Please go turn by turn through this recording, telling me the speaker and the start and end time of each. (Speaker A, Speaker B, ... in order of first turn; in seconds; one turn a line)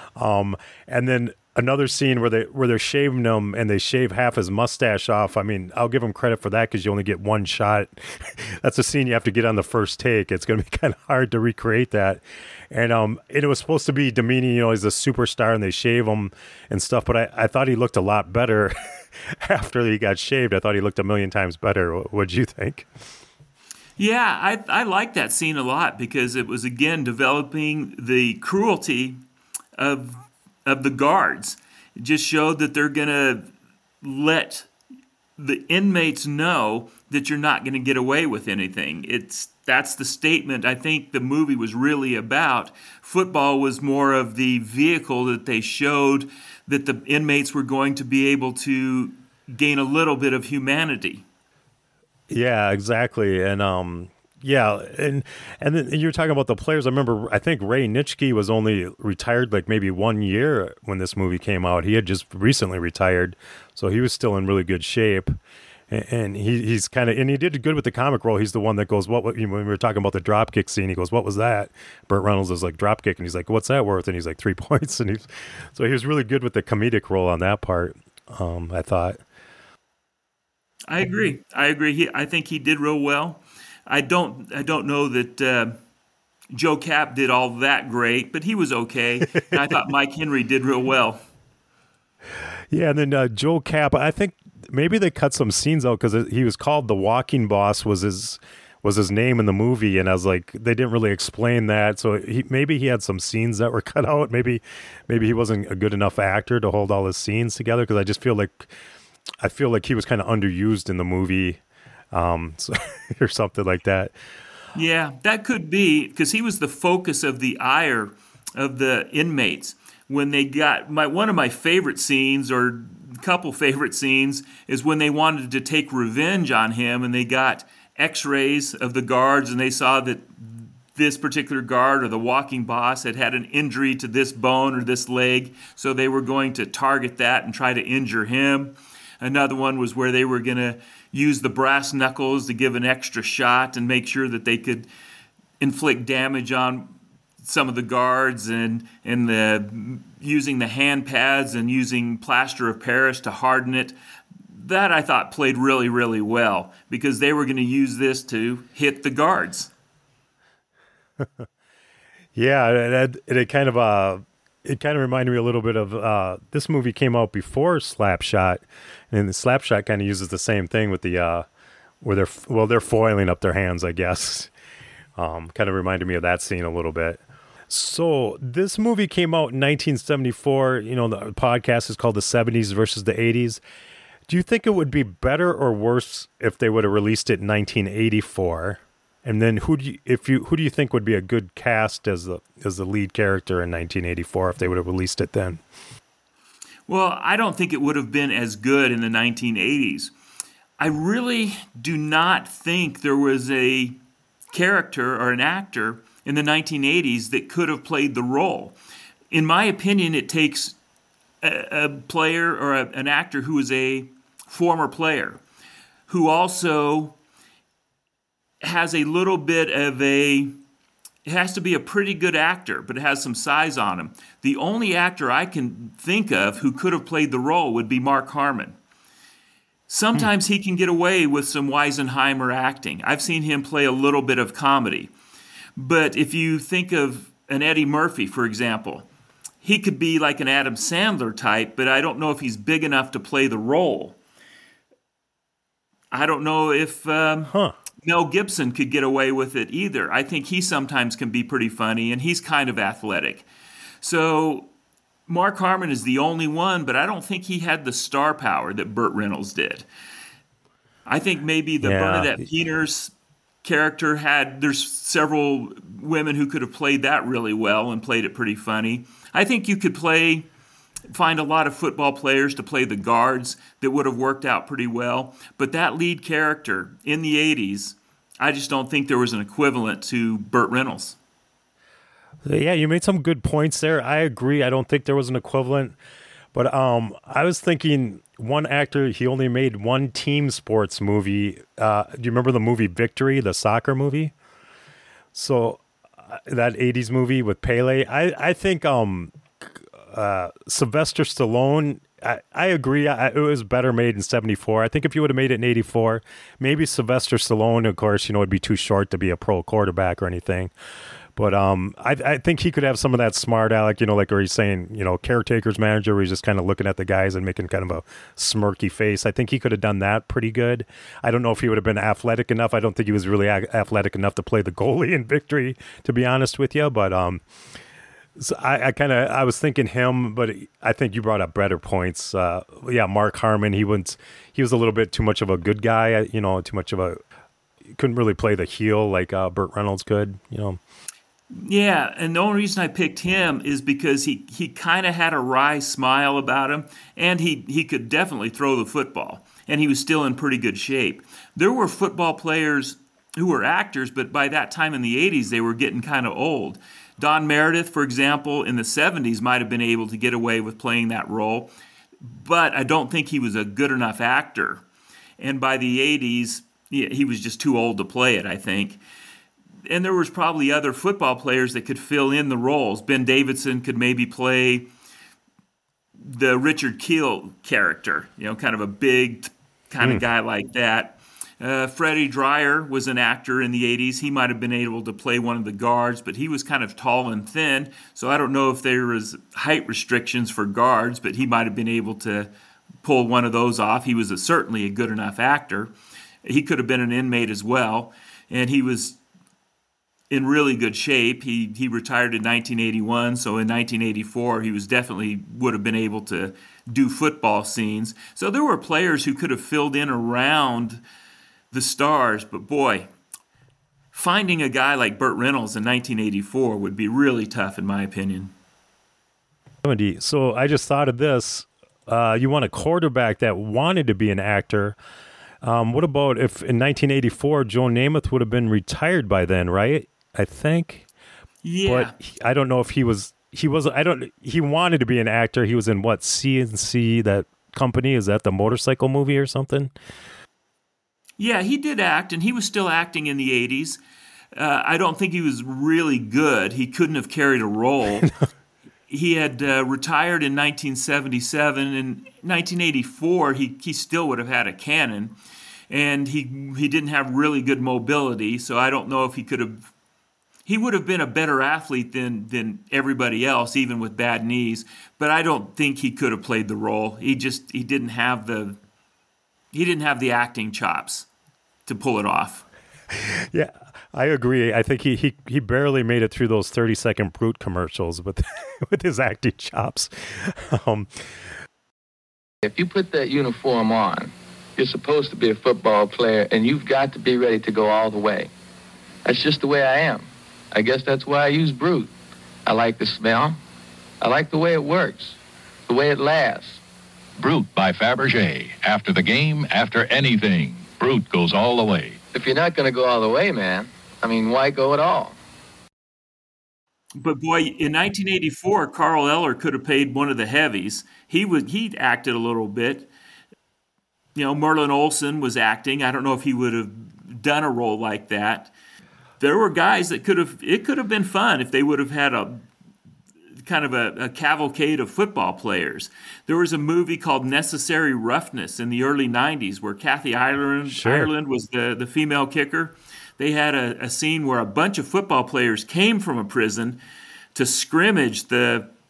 Speaker A: 0.1-22.9
Speaker B: 24.0-29.2
Speaker B: 29.8-33.5
Speaker B: 34.0-34.7
Speaker B: 35.4-51.2
Speaker A: 52.3-65.4
Speaker A: 65.9-79.2
Speaker B: 80.9-85.7
Speaker B: 86.5-91.2
Speaker A: 92.7-108.7
Speaker A: 109.4-111.6
Speaker A: 112.1-114.1
Speaker B: 114.7-144.9
Speaker B: 145.6-153.9
Speaker B: 154.5-159.7
Speaker A: 161.2-161.5
Speaker A: 162.3-171.4
Speaker A: 172.0-174.5
Speaker A: 175.2-183.6
Speaker A: 184.3-195.6
Speaker B: 196.9-200.1
Speaker B: 200.8-204.0
Speaker B: 204.5-208.7
Speaker B: 209.3-210.8
Speaker B: 211.4-215.4
Speaker B: 216.1-217.2
Speaker B: 218.6-220.5
Speaker B: 221.2-228.8
Speaker B: 229.9-235.1
Speaker B: 235.8-239.1
Speaker B: 239.6-244.2
Speaker B: 246.1-247.5
Speaker A: 247.5-247.8
Speaker B: 248.0-253.4
Speaker B: 254.0-254.7
Speaker B: 255.3-259.9
Speaker B: 261.1-270.5
Speaker A: 261.8-262.4
Speaker B: 271.1-281.2
Speaker A: 282.4-285.9
Speaker A: 286.5-294.3
Speaker A: 295.3-310.7
Speaker A: 311.3-327.4
Speaker A: 328.4-337.2
Speaker A: 337.9-340.8
Speaker B: 341.5-361.7
Speaker B: 362.2-364.8
Speaker B: 365.4-369.0
Speaker B: 369.9-374.9
Speaker B: 376.2-392.5
Speaker B: 393.0-395.9
Speaker B: 396.4-399.2
Speaker B: 400.3-411.0
Speaker B: 411.7-413.1
Speaker B: 414.1-418.5
Speaker A: 419.8-425.0
Speaker A: 425.6-431.1
Speaker B: 431.6-432.1
Speaker A: 431.8-439.9
Speaker B: 441.4-444.0
Speaker B: 444.5-448.3
Speaker B: 449.1-455.3
Speaker B: 455.9-459.9
Speaker B: 460.6-468.8
Speaker B: 469.7-471.3
Speaker B: 471.9-472.6
Speaker A: 473.1-481.1
Speaker C: 482.6-488.5
Speaker C: 489.2-492.1
Speaker C: 492.6-493.6
Speaker C: 494.2-495.4
Speaker C: 495.9-496.8
Speaker D: 497.4-502.2
Speaker C: 502.3-505.4
Speaker B: 507.2-513.1
Speaker B: 514.3-518.7
Speaker B: 519.4-522.6
Speaker B: 523.6-537.0
Speaker A: 530.9-531.3
Speaker B: 537.5-538.9